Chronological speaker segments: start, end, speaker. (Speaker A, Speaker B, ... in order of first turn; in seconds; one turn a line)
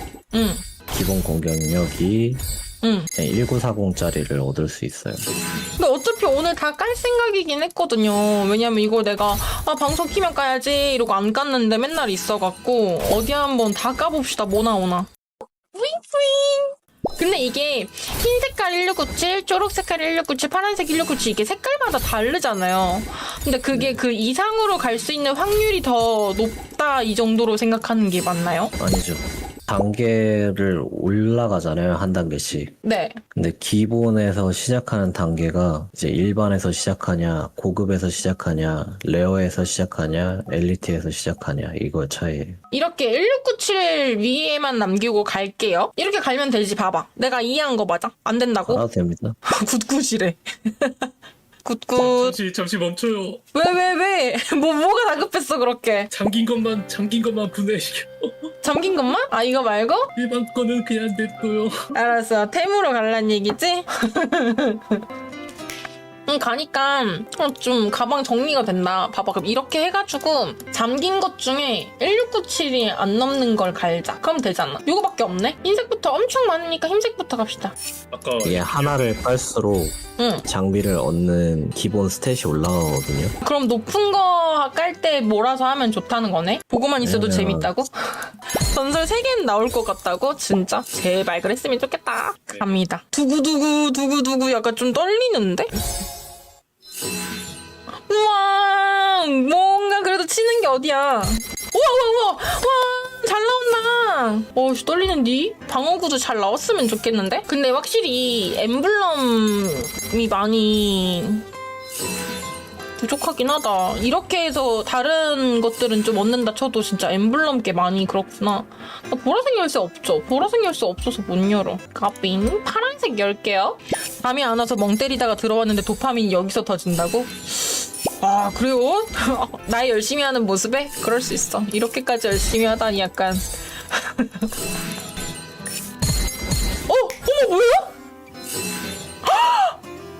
Speaker A: 0.3-0.6
Speaker B: 0.9-2.4
Speaker A: 2.8-3.1
Speaker B: 3.1-5.3
Speaker A: 5.8-15.1
Speaker A: 15.7-28.7
Speaker B: 28.8-32.7
Speaker A: 32.8-33.2
Speaker B: 33.3-42.6
Speaker A: 42.7-48.8
Speaker B: 48.6-49.4
Speaker A: 49.5-51.1
Speaker A: 51.6-52.4
Speaker C: 52.0-53.4
Speaker A: 53.5-56.1
Speaker C: 56.1-58.3
Speaker A: 58.6-60.1
Speaker C: 60.1-61.9
Speaker A: 61.9-65.0
Speaker A: 66.3-77.7
Speaker C: 78.1-79.2
Speaker B: 78.4-83.3
Speaker A: 80.2-80.4
Speaker A: 83.4-95.7
Speaker B: 87.0-87.7
Speaker A: 98.0-111.5
Speaker A: 113.0-134.5
Speaker A: 136.9-137.9
Speaker A: 139.2-139.8